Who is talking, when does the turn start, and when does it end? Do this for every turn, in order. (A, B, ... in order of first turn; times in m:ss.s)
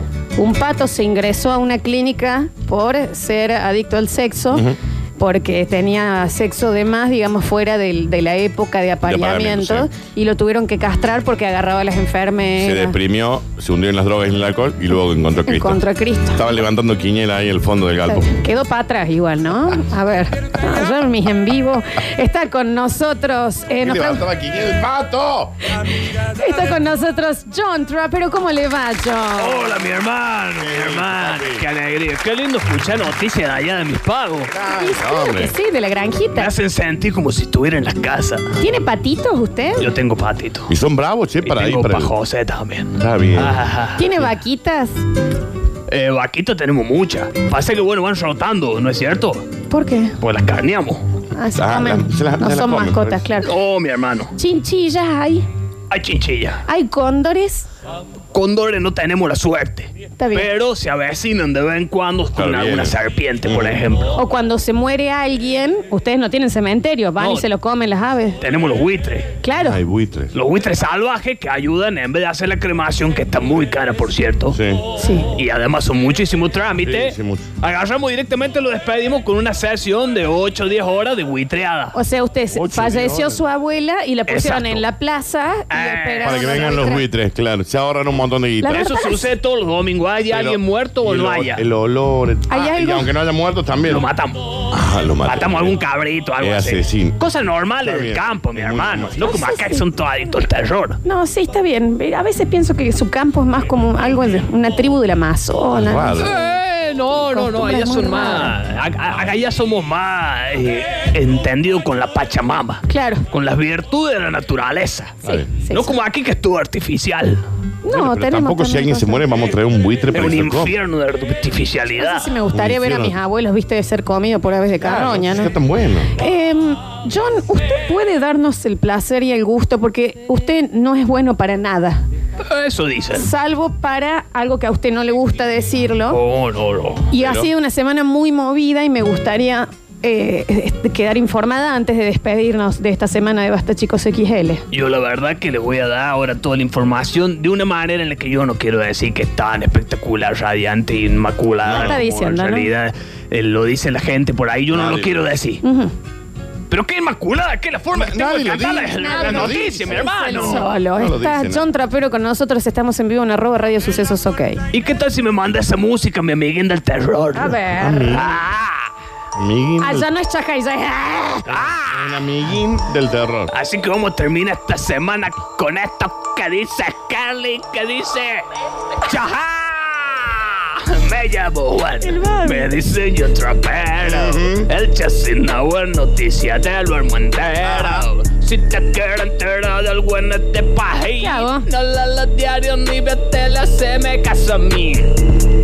0:00.4-0:04.7 A
0:05.2-0:13.0 A
0:09.0-0:09.9 B
0:12.6-0:18.3 B
0:15.5-0:16.4 A
0:18.0-0:24.3 A
0:23.8-0:25.6 B
0:25.8-0:29.8 A
0:29.4-0:34.5 C
0:30.6-0:31.6 B
0:34.5-0:35.6 B
0:34.7-0:36.5 A
0:36.4-0:38.5 C
0:38.6-0:39.9 A
0:39.8-0:40.7 C
0:40.7-0:42.1 B
0:41.4-0:44.2 C
0:43.0-0:44.3 B
0:44.0-0:45.0 A
0:45.9-0:49.4 C
0:49.7-0:50.2 A
0:50.2-0:51.0 C
0:51.4-0:53.5 A
0:51.6-0:53.3 B
0:53.4-0:54.3 C
0:54.4-0:55.4 A
0:55.9-0:56.6 C
0:56.7-0:57.7 A
0:58.3-1:04.2 C
1:00.2-1:00.5 A
1:02.4-1:03.8 B
1:04.2-1:08.4 A
1:07.2-1:07.5 C
1:08.4-1:09.3 C
1:09.4-1:09.8 A
1:09.6-1:10.3 B
1:10.3-1:14.6 C
1:14.5-1:14.8 B
1:15.0-1:15.3 A
1:15.3-1:22.0 C
1:16.8-1:17.5 B
1:21.9-1:27.1 A
1:22.5-1:23.4 B
1:24.3-1:24.8 C
1:25.7-1:26.8 C
1:26.2-1:28.9 B
1:28.6-1:29.3 A
1:28.7-1:31.6 C
1:30.3-1:34.0 B
1:32.5-1:33.1 A
1:33.9-1:34.7 C
1:34.7-1:35.8 B
1:35.2-1:41.0 C
1:36.4-1:37.2 B
1:37.8-1:39.4 B
1:39.2-1:39.9 A
1:41.0-1:46.4 A
1:45.7-1:46.3 B
1:46.2-1:57.4 C
1:47.1-1:48.6 A
1:52.9-1:53.3 A
1:55.2-1:56.0 A
1:55.2-1:55.5 B
1:57.8-1:59.3 A
1:57.9-2:00.7 B
2:00.1-2:02.3 C
2:02.0-2:05.6 A
2:02.5-2:03.2 B
2:04.8-2:06.1 B
2:06.1-2:12.0 A
2:12.4-2:13.3 C
2:13.1-2:16.2 A
2:16.1-2:17.1 C
2:17.1-2:24.6 A
2:17.2-2:17.5 B
2:24.7-2:35.6 C
2:31.6-2:32.0 B
2:31.7-2:32.7 A
2:34.7-2:35.3 B
2:35.6-2:35.9 A
2:36.7-2:40.7 C
2:37.9-2:41.7 B
2:38.9-2:44.6 A
2:44.7-2:47.6 C
2:47.3-2:48.2 A
2:47.8-2:48.4 B
2:48.1-2:48.9 C
2:49.4-2:50.1 B
2:49.8-2:51.5 A
2:51.5-2:52.2 C
2:51.5-2:53.5 B
2:53.5-3:15.1 C
3:02.0-3:02.7 A
3:04.0-3:04.7 B
3:07.6-3:08.1 B
3:11.2-3:11.7 A